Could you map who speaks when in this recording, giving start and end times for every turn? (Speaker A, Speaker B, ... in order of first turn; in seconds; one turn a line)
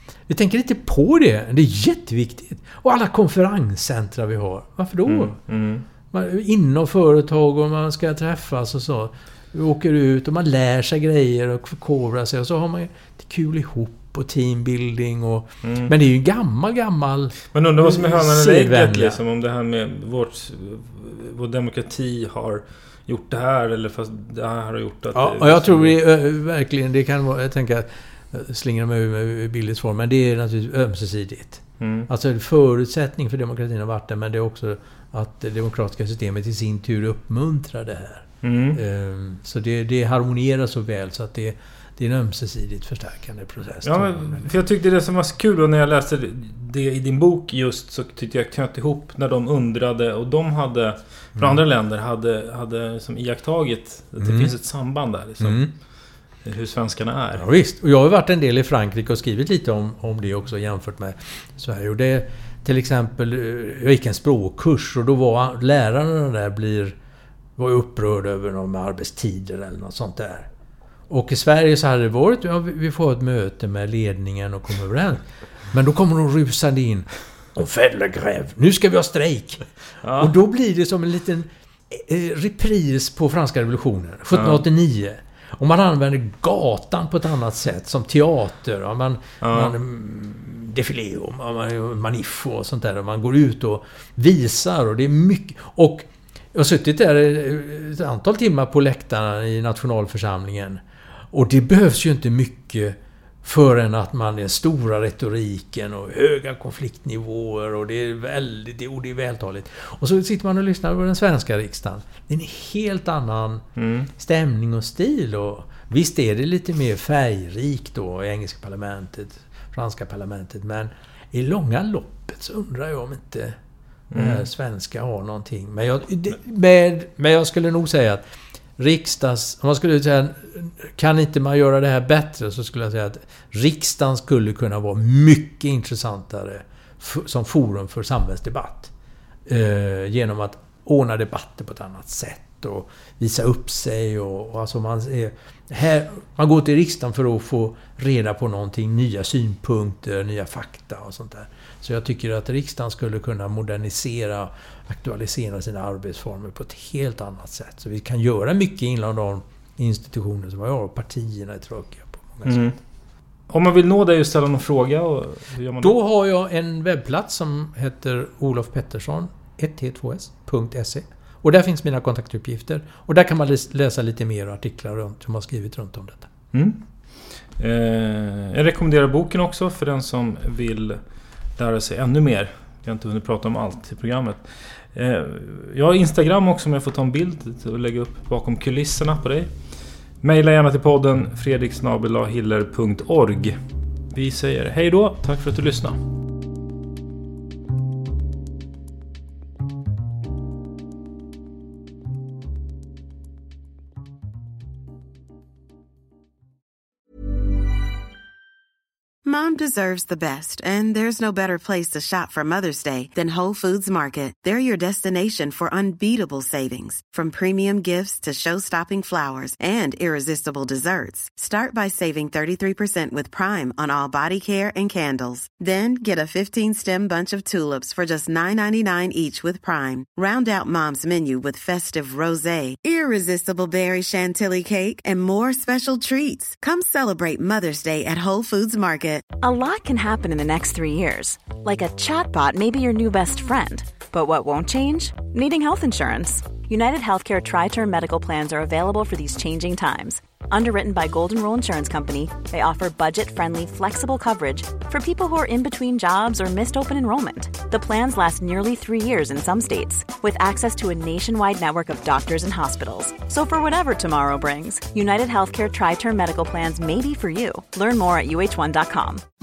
Speaker A: 0.3-5.3
Speaker B: 5.1-5.8
Speaker A: 6.1-19.2
Speaker B: 15.6-15.9
Speaker B: 17.5-25.9
Speaker A: 25.1-44.5
Speaker B: 31.8-32.1
Speaker B: 38.4-38.8
Speaker B: 43.8-55.7
Speaker A: 54.2-54.5
Speaker A: 55.4-55.7
Speaker B: 56.4-57.4
Speaker A: 57.4-67.0
Speaker A: 67.6-70.5
Speaker A: 71.1-113.6
Speaker B: 80.0-80.3
Speaker B: 84.3-84.6
Speaker B: 89.4-89.8
Speaker B: 113.8-114.1
Speaker A: 114.2-123.5
Speaker B: 124.1-124.5
Speaker A: 124.1-128.2
Speaker A: 128.8-138.9
Speaker A: 139.5-162.6
Speaker B: 162.4-162.8
Speaker B: 163.5-165.9
Speaker A: 165.8-176.3
Speaker B: 176.5-181.0
Speaker B: 181.6-189.5
Speaker B: 190.2-193.6
Speaker B: 194.1-196.0
Speaker C: 209.2-239.2
Speaker D: 239.4-269.2